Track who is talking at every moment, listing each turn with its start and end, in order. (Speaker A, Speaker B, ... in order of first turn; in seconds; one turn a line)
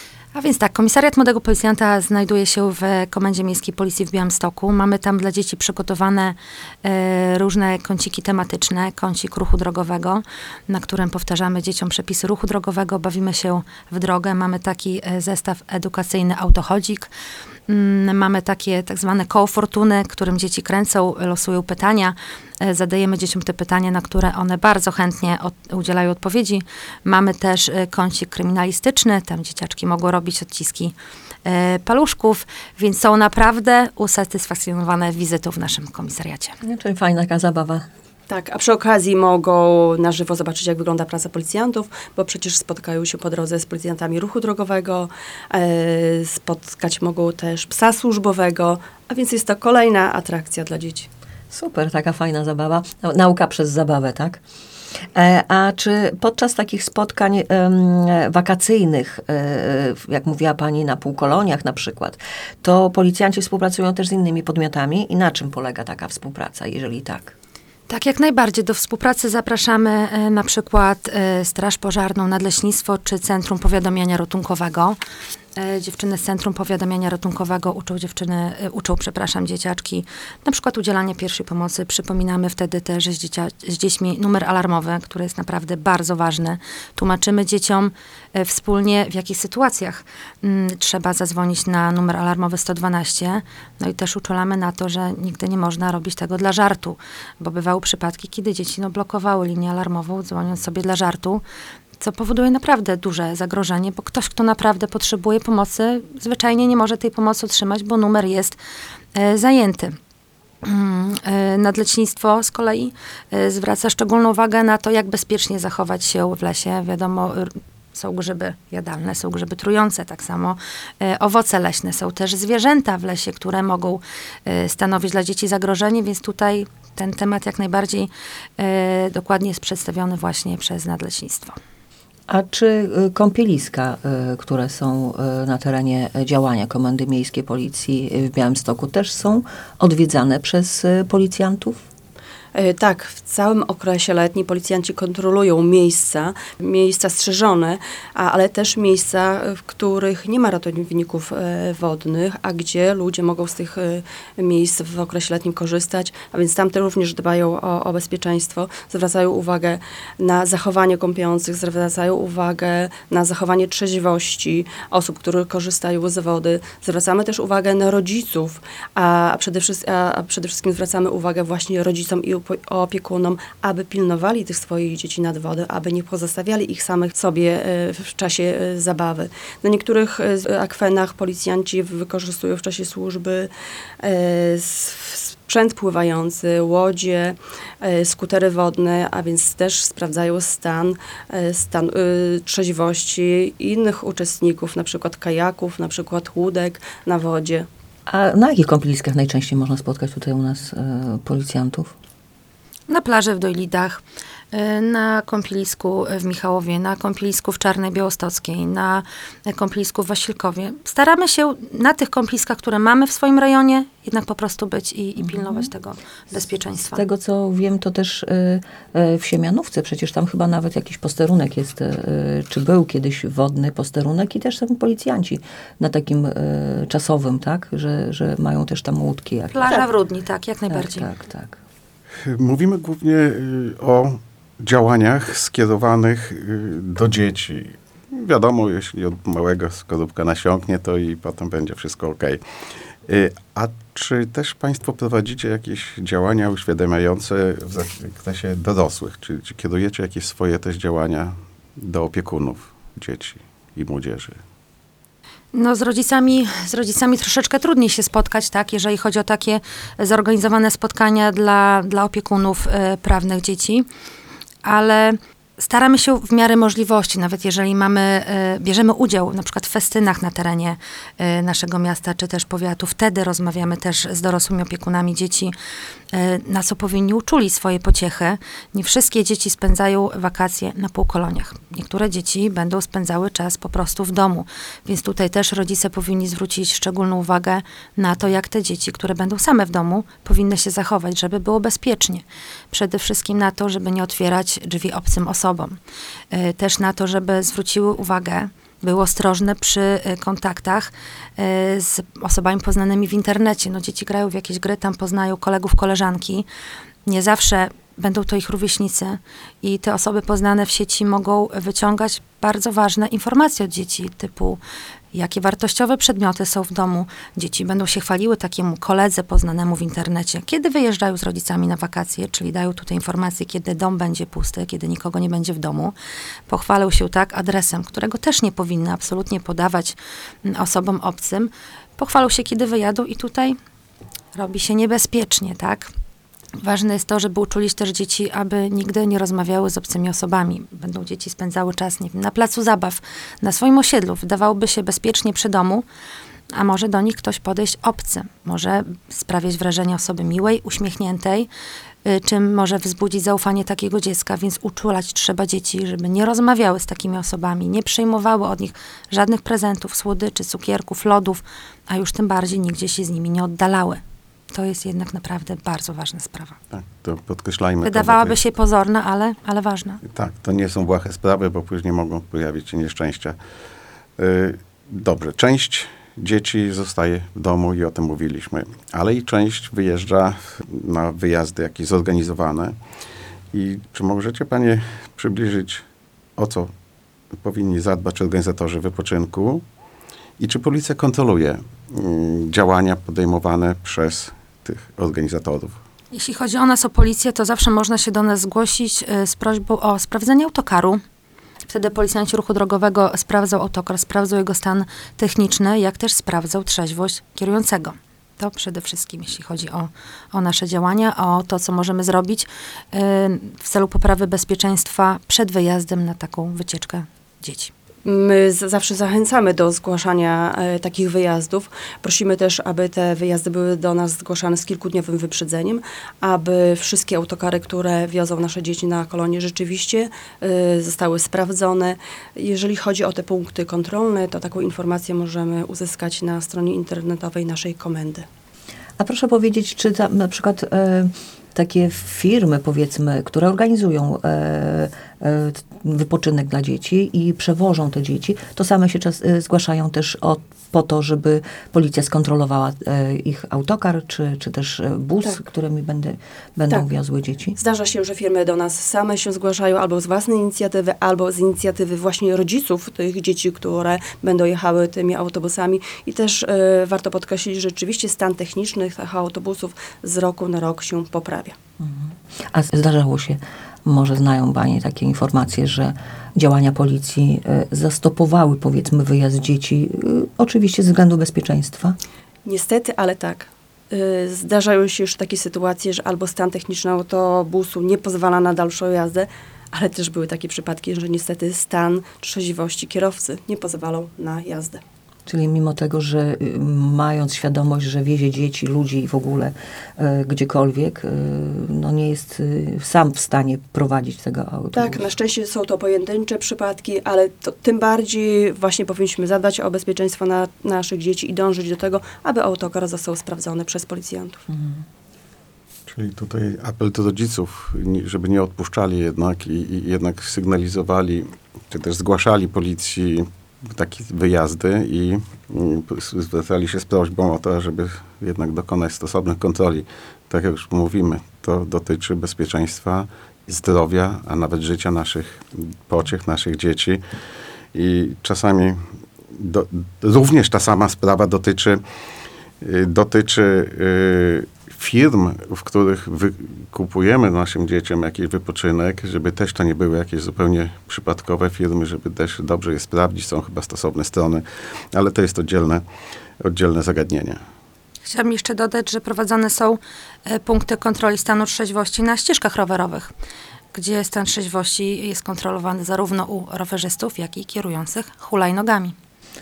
Speaker A: 0.3-17.1
Speaker A: 17.7-36.5
Speaker B: 36.6-37.8
Speaker C: 38.3-51.1
Speaker B: 51.5-54.4
Speaker B: 55.1-67.3
Speaker A: 67.9-75.0
Speaker A: 75.6-101.4
Speaker A: 102.0-108.6
Speaker A: 109.1-109.9
Speaker A: 110.6-131.6
Speaker B: 132.3-141.8
Speaker C: 142.5-197.7
Speaker B: 198.1-201.9
Speaker A: 202.9-217.0
Speaker B: 215.2-215.7
Speaker B: 216.9-229.9
Speaker A: 229.5-231.1
Speaker B: 230.7-231.6
Speaker D: 232.2-242.4
Speaker D: 243.1-254.4
Speaker A: 255.5-263.9
Speaker A: 264.6-275.5
Speaker A: 276.1-295.8
Speaker A: 296.3-306.4
Speaker A: 307.1-314.6
Speaker A: 315.1-325.9
Speaker A: 326.5-333.6
Speaker A: 334.3-335.9
Speaker A: 336.6-345.8
Speaker A: 346.5-351.5
Speaker A: 352.0-366.6
Speaker D: 366.7-368.4
Speaker A: 367.8-370.0
Speaker D: 370.1-373.4
Speaker D: 374.2-382.8
Speaker D: 383.5-385.8
Speaker D: 386.4-386.7
Speaker D: 387.3-389.6
Speaker D: 390.4-395.8
Speaker A: 396.1-401.0
Speaker A: 401.7-417.7
Speaker C: 418.0-438.2
Speaker B: 439.0-457.6
Speaker C: 457.6-471.5
Speaker B: 471.8-482.0
Speaker C: 482.4-494.8
Speaker B: 495.2-505.0
Speaker C: 504.7-514.4
Speaker B: 514.5-514.8
Speaker D: 515.9-537.0
Speaker D: 537.7-538.8
Speaker D: 539.3-541.8
Speaker D: 542.6-555.8
Speaker D: 556.4-557.4
Speaker A: 558.0-563.1
Speaker A: 563.7-568.9